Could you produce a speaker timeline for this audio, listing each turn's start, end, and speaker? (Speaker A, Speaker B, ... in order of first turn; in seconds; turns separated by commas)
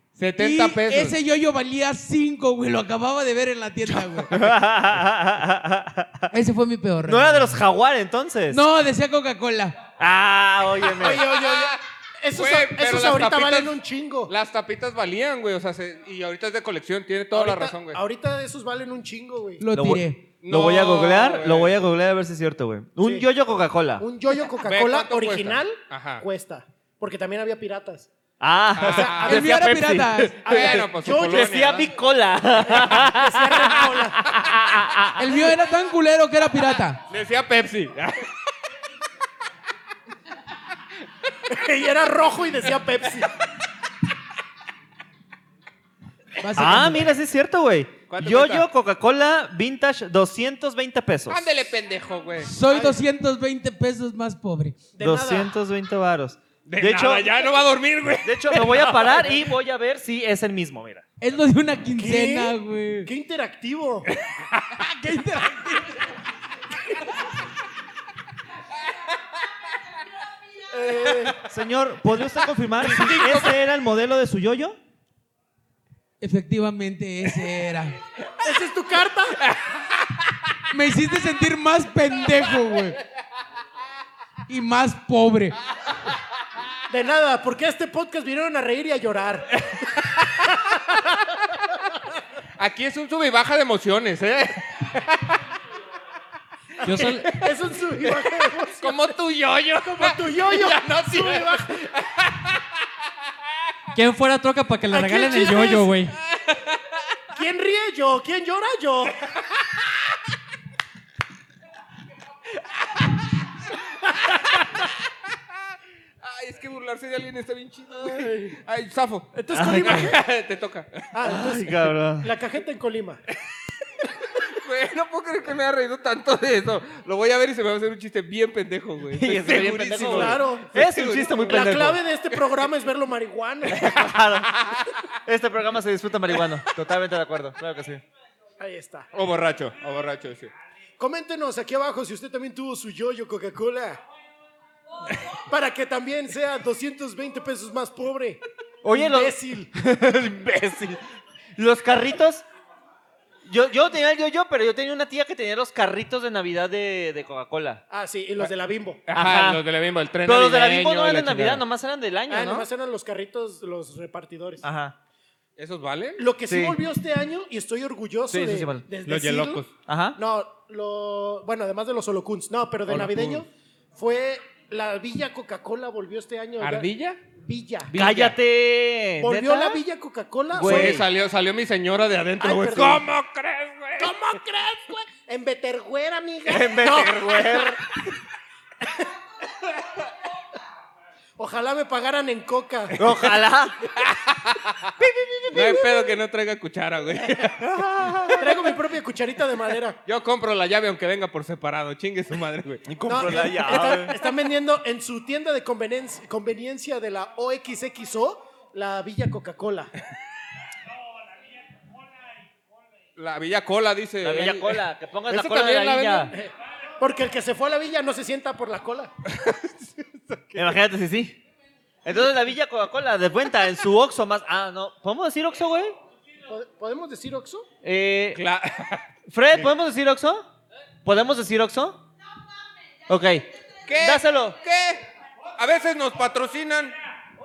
Speaker A: 0.2-1.2, Speaker B: 0.4-4.3, Speaker A: 3.8-4.3, Speaker C: 4.3-6.3, Speaker B: 6.3-7.6, Speaker C: 7.0-8.7, Speaker B: 8.5-9.8, Speaker C: 10.0-11.3, Speaker D: 10.9-14.3, Speaker A: 11.3-11.8, Speaker A: 12.3-18.0, Speaker D: 17.3-19.6, Speaker B: 19.6-20.3, Speaker C: 19.7-24.1, Speaker A: 20.4-21.8, Speaker D: 23.0-23.3, Speaker D: 24.0-28.1, Speaker A: 24.6-26.2, Speaker C: 28.4-35.4, Speaker A: 28.8-29.6, Speaker D: 28.9-29.3, Speaker B: 29.2-30.5, Speaker D: 30.4-31.7, Speaker A: 30.5-31.9, Speaker D: 32.7-34.3, Speaker B: 35.2-37.0, Speaker A: 37.1-38.3, Speaker D: 41.5-43.3, Speaker B: 46.4-47.1, Speaker C: 46.5-51.5, Speaker A: 48.1-48.7, Speaker A: 51.3-52.5, Speaker B: 52.4-54.9, Speaker D: 52.7-53.0, Speaker D: 55.0-55.5, Speaker C: 55.0-57.4, Speaker A: 56.7-59.4, Speaker C: 58.2-61.0, Speaker B: 61.2-63.1, Speaker D: 62.0-64.1, Speaker B: 64.8-66.0, Speaker D: 70.7-71.5, Speaker C: 71.4-74.8, Speaker A: 72.8-73.5, Speaker B: 76.2-78.0, Speaker D: 78.4-79.4, Speaker B: 80.7-83.0, Speaker B: 84.5-85.5, Speaker D: 86.9-89.5, Speaker D: 90.5-91.0, Speaker A: 92.6-95.2, Speaker E: 96.8-97.4, Speaker D: 96.9-99.1, Speaker A: 97.1-97.4, Speaker A: 97.9-102.6, Speaker D: 99.8-101.8, Speaker E: 103.9-106.1, Speaker D: 104.9-105.9, Speaker A: 106.3-106.7, Speaker D: 107.3-109.2, Speaker A: 116.2-121.1, Speaker D: 118.0-118.6, Speaker D: 119.3-120.2, Speaker C: 119.5-120.0, Speaker D: 121.1-123.2, Speaker C: 121.2-122.3, Speaker A: 124.4-131.8, Speaker C: 129.1-132.0, Speaker D: 130.1-130.7, Speaker D: 131.4-134.0, Speaker A: 133.8-134.9, Speaker C: 133.8-134.6, Speaker C: 135.3-138.0, Speaker D: 138.6-139.1, Speaker A: 139.1-140.5, Speaker D: 141.0-144.0, Speaker D: 145.5-148.4, Speaker C: 148.8-151.0, Speaker D: 148.9-149.7, Speaker C: 151.6-152.4, Speaker C: 153.4-157.8, Speaker D: 157.9-159.0, Speaker A: 159.1-161.6, Speaker C: 159.1-159.6, Speaker C: 160.2-162.7, Speaker D: 162.3-164.6, Speaker C: 164.6-165.0, Speaker A: 165.6-166.2, Speaker D: 166.2-169.6, Speaker C: 166.5-166.8, Speaker C: 168.3-168.8, Speaker A: 169.1-169.7, Speaker C: 169.9-170.2, Speaker D: 170.2-176.9, Speaker A: 172.9-173.4, Speaker A: 176.6-177.2, Speaker D: 177.4-177.9, Speaker A: 177.9-178.4, Speaker C: 177.9-179.8, Speaker D: 179.2-181.0, Speaker C: 180.5-181.1, Speaker A: 180.6-184.2, Speaker D: 182.4-183.1, Speaker D: 184.0-187.8, Speaker C: 186.5-187.8, Speaker D: 191.4-193.0, Speaker C: 193.0-193.9, Speaker A: 194.0-194.7, Speaker C: 195.0-195.9, Speaker A: 195.5-197.7, Speaker C: 197.6-198.7, Speaker D: 198.4-200.0, Speaker A: 200.1-202.9, Speaker C: 202.9-204.2, Speaker D: 203.1-209.9, Speaker A: 213.2-216.3, Speaker C: 214.2-216.3, Speaker D: 216.3-219.1, Speaker A: 219.3-219.9, Speaker C: 220.5-221.4, Speaker C: 222.1-226.0, Speaker D: 226.5-227.7, Speaker C: 227.8-228.4, Speaker A: 228.3-229.7, Speaker C: 229.3-230.5, Speaker C: 231.1-232.0, Speaker C: 233.1-234.6, Speaker A: 233.9-235.1, Speaker A: 235.6-236.9